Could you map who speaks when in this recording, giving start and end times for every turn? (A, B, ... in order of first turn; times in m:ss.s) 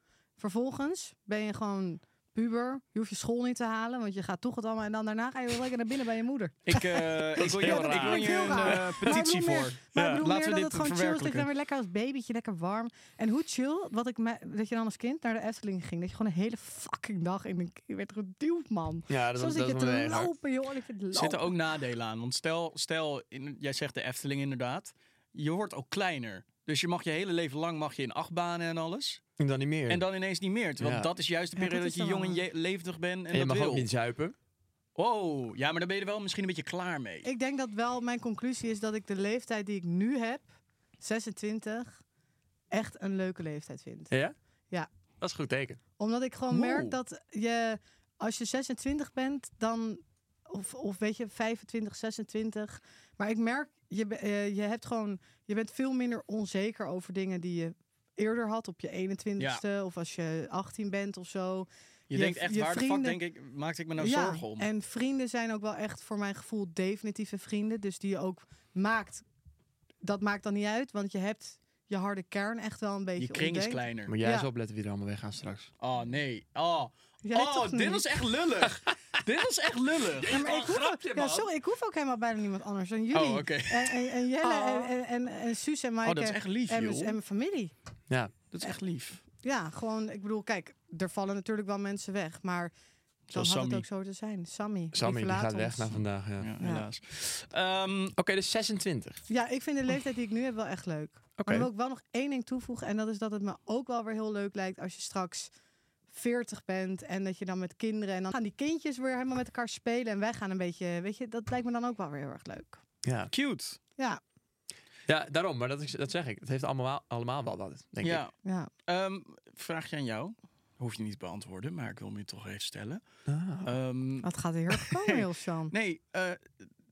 0:00.4-0:06.8 A
0:06.7-0:11.5 B
0:07.4-0:09.2 C
0:07.5-0:21.5 A
0:09.9-0:10.2 C
0:19.1-0:20.3 C
0:21.1-0:29.2 B
0:29.4-0:30.1 C
0:29.9-0:33.9 B
0:30.8-0:31.1 C
0:31.6-0:32.4 A
0:33.3-0:34.4 C
0:35.0-0:37.3 B
0:37.2-0:40.5 A
0:41.0-0:42.0 A
0:42.7-0:44.1 A
0:45.2-0:45.8 C
0:46.0-1:03.2 A
0:46.5-0:46.9 B
1:02.1-1:04.7 B
1:04.0-1:09.2 A
1:10.0-1:14.5 A
1:13.2-1:14.1 B
1:14.1-1:15.7 C
1:15.8-1:20.4 B
1:17.2-1:18.1 A
1:20.2-1:21.5 C
1:20.3-1:27.7 A
1:23.1-1:24.9 B
1:26.0-1:27.2 B
1:28.1-1:28.3 C
1:28.5-1:29.2 B
1:29.4-1:32.7 A
1:33.3-1:33.9 B
1:33.3-1:36.0 A
1:34.9-1:36.5 C
1:36.4-1:38.2 B
1:36.6-1:36.9 A
1:38.2-1:39.2 C
1:39.3-1:45.5 A
1:41.4-1:41.7 C
1:46.1-1:52.8 A
1:53.0-1:53.3 C
1:53.3-1:53.8 B
1:55.1-1:58.2 C
1:58.0-1:58.3 B
1:58.4-1:58.7 A
1:58.9-2:03.0 B
2:03.3-2:03.7 C
2:03.6-2:06.6 B
2:04.2-2:05.7 A